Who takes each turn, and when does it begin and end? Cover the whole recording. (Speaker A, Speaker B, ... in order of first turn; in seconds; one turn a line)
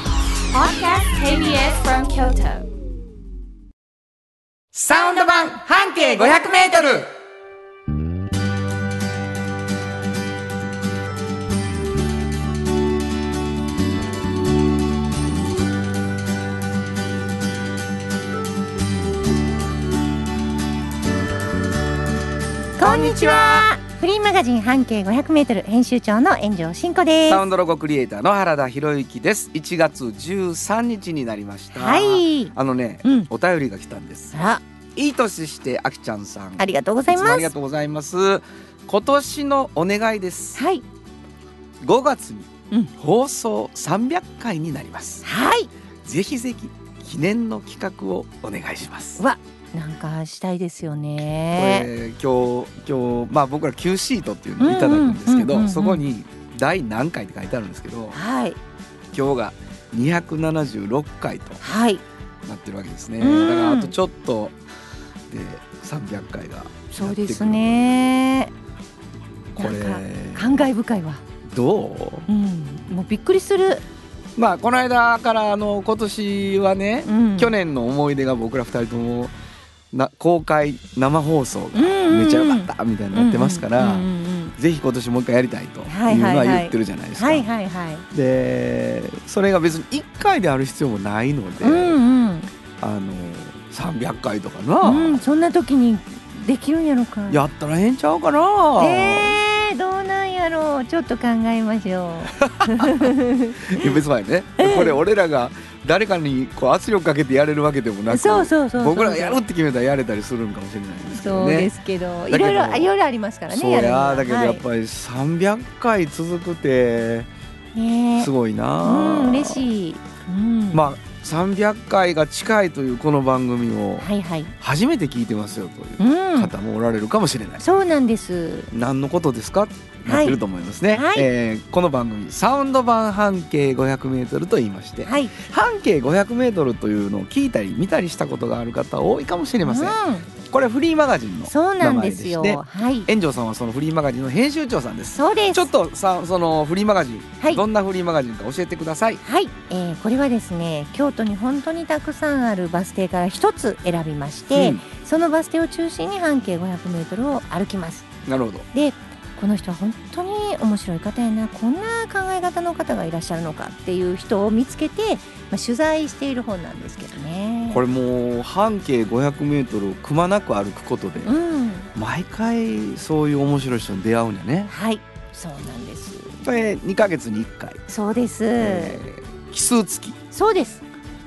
Speaker A: 0.5-2.7
Speaker B: 4.7-7.1
Speaker B: 22.8-23.7
Speaker C: 22.8-27.4
Speaker B: 27.3-34.4
Speaker C: 31.7-33.3
Speaker C: 34.3-34.6
Speaker B: 35.0-40.6
Speaker C: 36.6-37.5
Speaker C: 40.5-40.8
Speaker B: 41.8-45.2
Speaker C: 45.2-45.7
Speaker B: 46.0-49.2
Speaker C: 49.2-51.9
Speaker B: 51.5-58.2
Speaker C: 54.6-56.0
Speaker C: 58.1-58.6
Speaker B: 59.1-61.6
Speaker C: 61.6-62.0
Speaker B: 62.4-64.5
Speaker C: 63.2-63.9
Speaker B: 65.3-67.8
Speaker C: 66.9-68.5
Speaker B: 69.5-70.7
Speaker C: 69.6-71.2
Speaker B: 71.4-72.3
Speaker C: 72.3-73.8
Speaker B: 74.3-79.3
Speaker C: 77.0-77.5
Speaker B: 79.9-87.5
Speaker C: 81.7-84.5
Speaker C: 85.9-88.0
Speaker B: 88.1-92.0
Speaker C: 91.6-92.5
Speaker B: 92.8-95.2
Speaker C: 94.8-97.4
Speaker B: 97.3-99.4
Speaker C: 98.8-103.9
Speaker B: 102.4-103.1
Speaker B: 103.6-111.7
Speaker C: 104.6-105.0
Speaker C: 108.1-109.4
Speaker C: 111.1-114.6
Speaker B: 112.3-112.9
Speaker B: 113.5-117.3
Speaker C: 117.7-118.3
Speaker B: 118.2-119.7
Speaker C: 118.8-120.8
Speaker B: 120.7-127.6
Speaker C: 124.0-124.5
Speaker C: 126.0-126.5
Speaker C: 127.6-128.7
Speaker B: 128.7-149.2
Speaker C: 130.0-130.4
Speaker C: 130.9-131.3
Speaker C: 135.0-135.3
Speaker C: 139.6-140.3
Speaker C: 141.5-143.1
Speaker C: 145.1-145.7
Speaker C: 149.2-158.1
Speaker B: 154.5-154.8
Speaker B: 158.2-158.7
Speaker C: 158.7-167.8
Speaker B: 167.7-171.3
Speaker C: 171.2-171.9
Speaker B: 171.9-174.7
Speaker C: 174.7-176.4
Speaker B: 176.4-177.8
Speaker C: 177.9-179.0
Speaker B: 178.6-180.2
Speaker C: 180.3-180.8